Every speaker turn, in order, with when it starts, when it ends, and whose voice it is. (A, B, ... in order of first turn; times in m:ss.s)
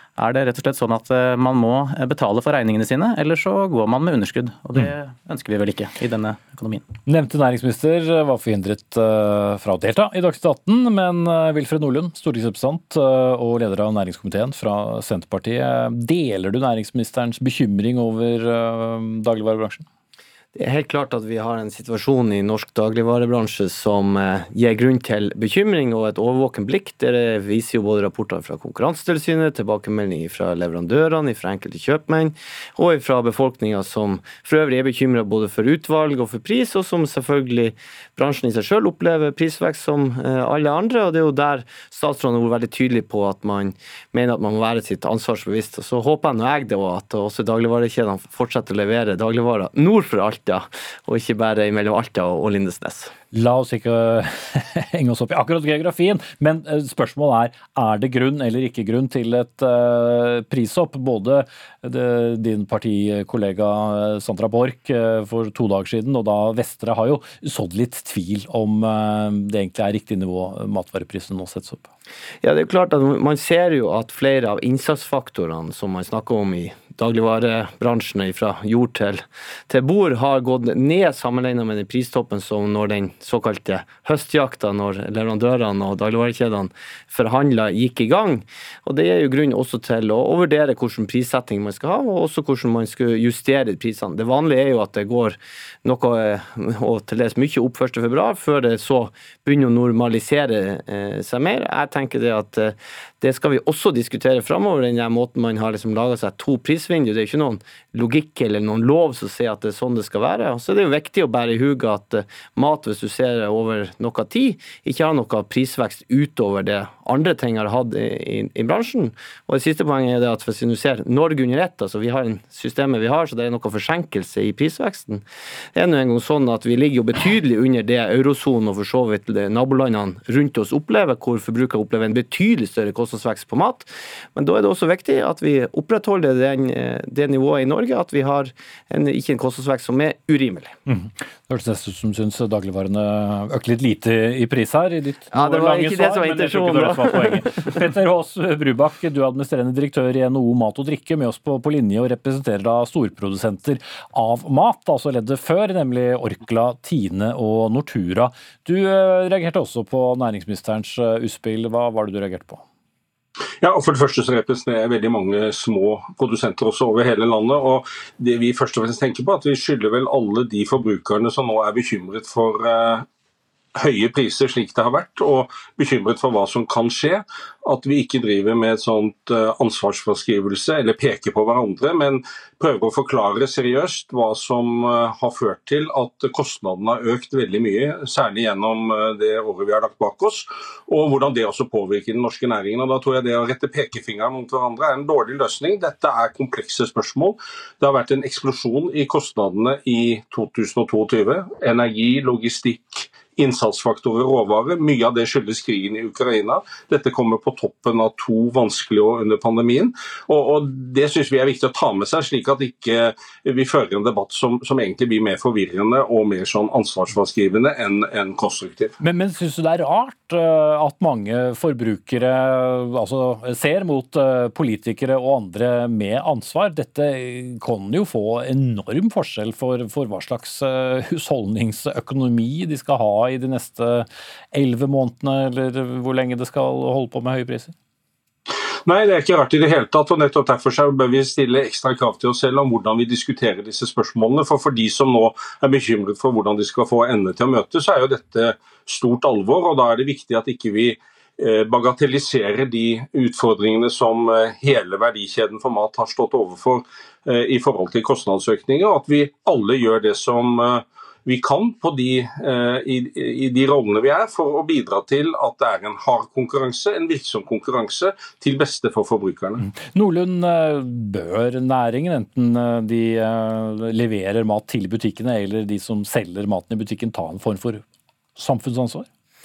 0:00.2-0:06.8 A
0:07.1-0:19.8 B
0:20.6-0:53.1 C
0:53.3-1:11.9 B
1:12.4-2:05.2 C
2:05.8-2:20.8 C
2:20.9-2:42.6 B
2:25.3-2:27.8 C
2:43.6-2:53.1 D
2:53.8-3:39.0 D
3:39.0-3:57.7 B
3:58.8-4:29.6 D
4:29.7-4:37.8 B
4:38.4-4:39.1 B